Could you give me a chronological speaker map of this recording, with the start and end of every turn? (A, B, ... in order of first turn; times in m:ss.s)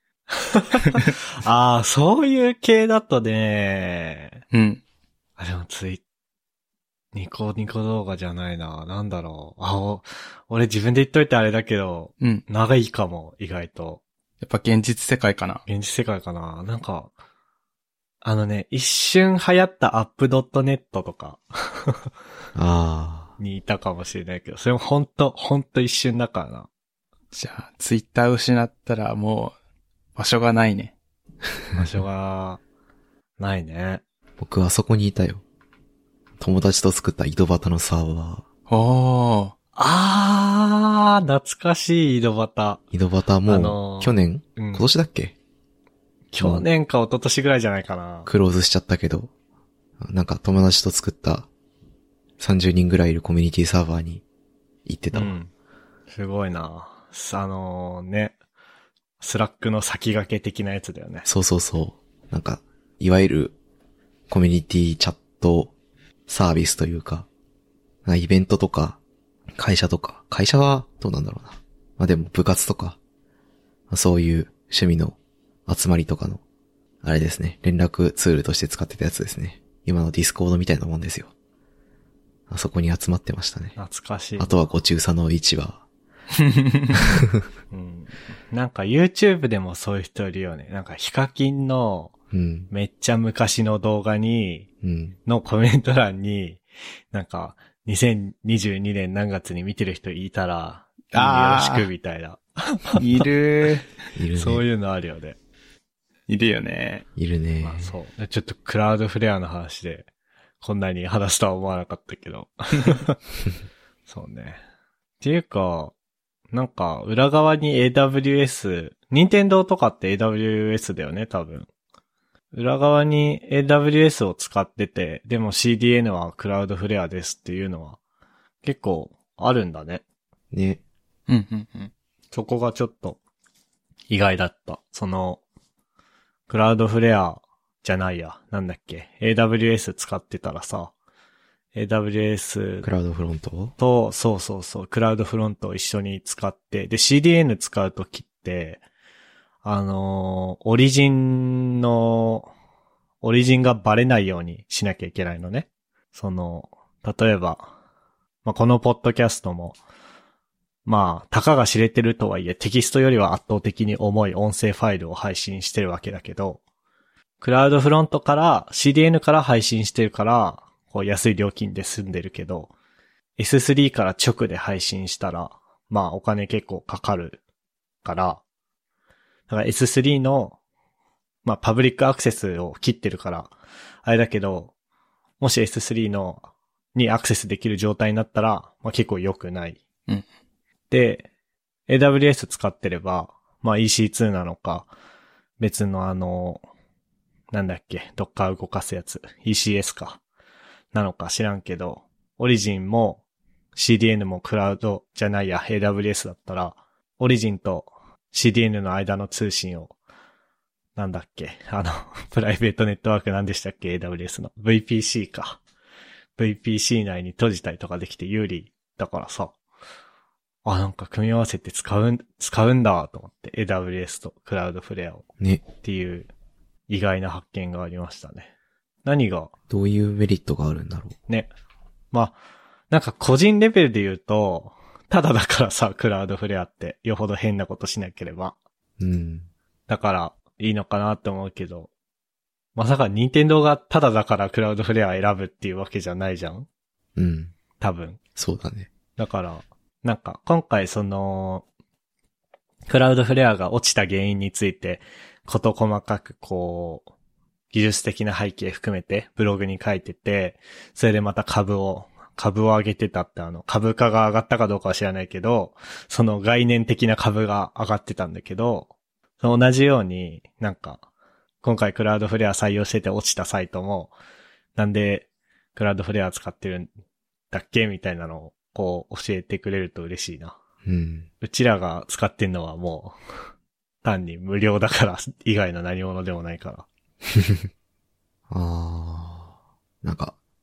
0:00.3-0:04.4 A
0:04.5-0:04.8 B
0:05.4-0:06.0 A
0:07.1-0:14.0 A
0:14.4-0:15.6 B
0:15.7-0:17.1 A
0:18.2-0:22.0 A
0:22.5-0:23.3 C
0:23.4-0:26.7 A
0:27.3-0:29.5 B
0:30.2-0:30.9 B
0:31.7-0:32.6 A
0:33.4-0:34.0 A
0:34.4-0:35.4 C
0:36.4-0:38.4 C
0:38.7-0:39.5 B
0:39.8-0:42.8 A
0:42.9-0:45.4 C
0:43.4-0:44.9 A
0:46.3-0:48.3 A
0:46.4-0:46.6 C
0:48.2-0:49.3 C
0:50.0-0:51.5 C
0:52.4-0:54.2 C
0:54.8-0:55.3 C
0:55.1-0:55.5 A
0:56.1-0:58.3 A
0:59.2-1:01.3 A
1:01.2-1:03.5 C
1:04.3-1:05.7 C
1:06.3-1:07.3 C
1:08.0-1:09.0 C
1:09.5-1:13.0 C
1:13.9-1:16.4 C
1:17.0-1:21.3 C
1:22.5-1:23.8 C
1:23.8-1:24.5 A
1:24.4-1:25.8 C
1:26.4-1:27.0 B
1:27.1-1:27.4 C
1:27.7-1:32.1 A
1:32.3-1:32.7 C
1:32.7-1:34.7 A
1:34.8-1:35.2 C
1:35.2-1:36.6 A
1:37.1-1:43.3 A
1:41.1-1:41.9 B
1:43.0-1:43.8 B
1:44.2-1:44.6 C
1:44.3-1:45.4 A
1:46.3-1:47.0 B
1:47.2-1:47.9 C
1:47.6-1:50.1 A
1:50.6-1:53.2 A
1:54.1-1:54.6 A
1:55.2-1:55.9 A
1:56.5-2:01.7 A
2:02.5-2:08.0 A
2:08.6-2:10.0 A
2:10.5-2:10.8 C
2:11.3-2:11.9 B
2:12.3-2:13.2 A
2:14.1-2:15.4 A
2:16.5-2:20.9 A
2:21.7-2:22.9 A
2:22.8-2:23.7 C
2:23.8-2:28.8 A
2:29.6-2:32.5 A
2:33.2-2:37.7 A
2:38.4-2:39.8 A
2:40.8-2:46.6 A
2:47.4-2:52.7 A
2:53.4-2:57.4 A
2:58.0-2:58.4 A
2:59.5-3:00.6 A
3:01.4-3:03.5 A
3:04.0-3:04.7 A
3:05.4-3:09.8 A
3:10.9-3:11.3 A
3:11.9-3:14.9 A
3:15.6-3:16.6 A
3:17.5-3:20.2 A
3:20.9-3:23.2 A
3:23.7-3:29.9 A
3:31.0-3:35.6 A
3:36.4-3:39.6 A
3:40.6-3:45.2 A
3:45.8-3:46.3 A
3:46.9-3:48.5 A
3:49.0-3:49.5 A
3:49.7-3:51.2 C
3:52.9-3:58.5 A
3:59.0-3:59.5 C
3:59.9-4:01.9 A
4:02.7-4:06.7 A
4:07.2-4:07.5 C
4:07.8-4:08.2 A
4:08.4-4:08.9 C
4:09.2-4:11.6 A
4:12.9-4:17.1 A
4:17.7-4:31.0 A
4:31.6-4:34.1 A
4:34.8-4:36.9 A
4:37.5-4:40.6 A
4:40.8-4:41.3 C
4:41.4-4:43.2 A
4:44.0-4:46.8 A
4:47.3-4:47.6 C
4:48.5-4:49.5 C
4:50.0-4:50.3 C